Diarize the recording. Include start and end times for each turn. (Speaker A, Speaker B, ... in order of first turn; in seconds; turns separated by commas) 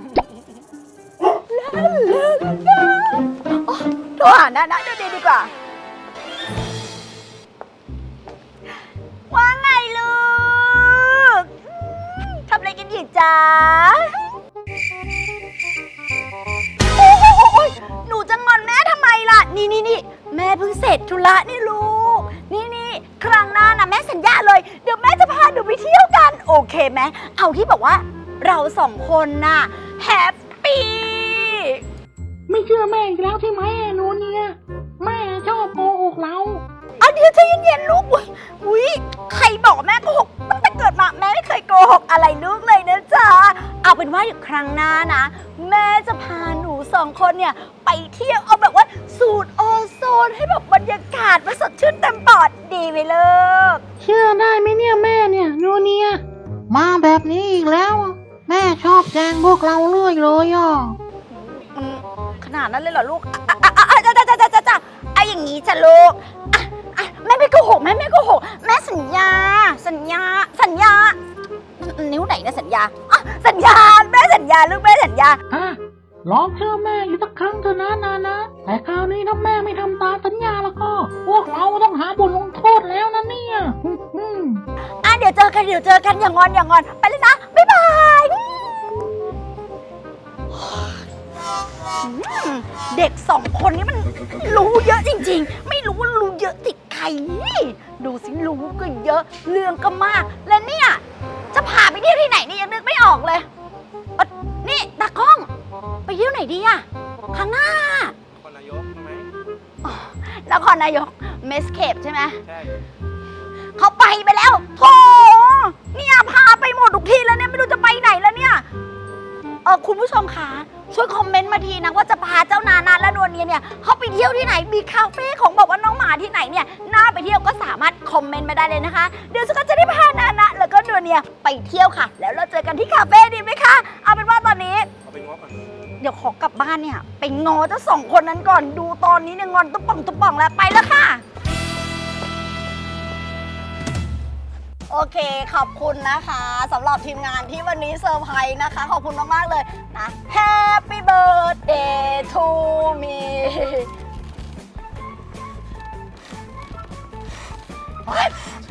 Speaker A: 1.5-5.5, Speaker A: 9.3-14.2, Speaker A: 16.9-31.8, Speaker B: 32.5-36.6, Speaker A: 37.0-53.8, Speaker B: 54.0-61.0, Speaker A: 61.3-71.2, Speaker A: 71.8-75.4, Speaker B: 75.5-84.6, Speaker A: 85.0-89.0, Speaker A: 90.5-91.0, Speaker A: 92.0-101.0, Speaker A: 101.5-103.5, Speaker A: 104.2-105.5, Speaker A: 106.1-108.2, Speaker C: 108.4-109.3, Speaker A: 109.8-112.4, Speaker C: 112.5-112.8, Speaker A: 113.8-118.7, Speaker A: 119.7-134.9, Speaker C: 135.0-135.6, Speaker A: 136.0-141.2, Speaker A: 144.9-153.9, Speaker A: 158.1-158.4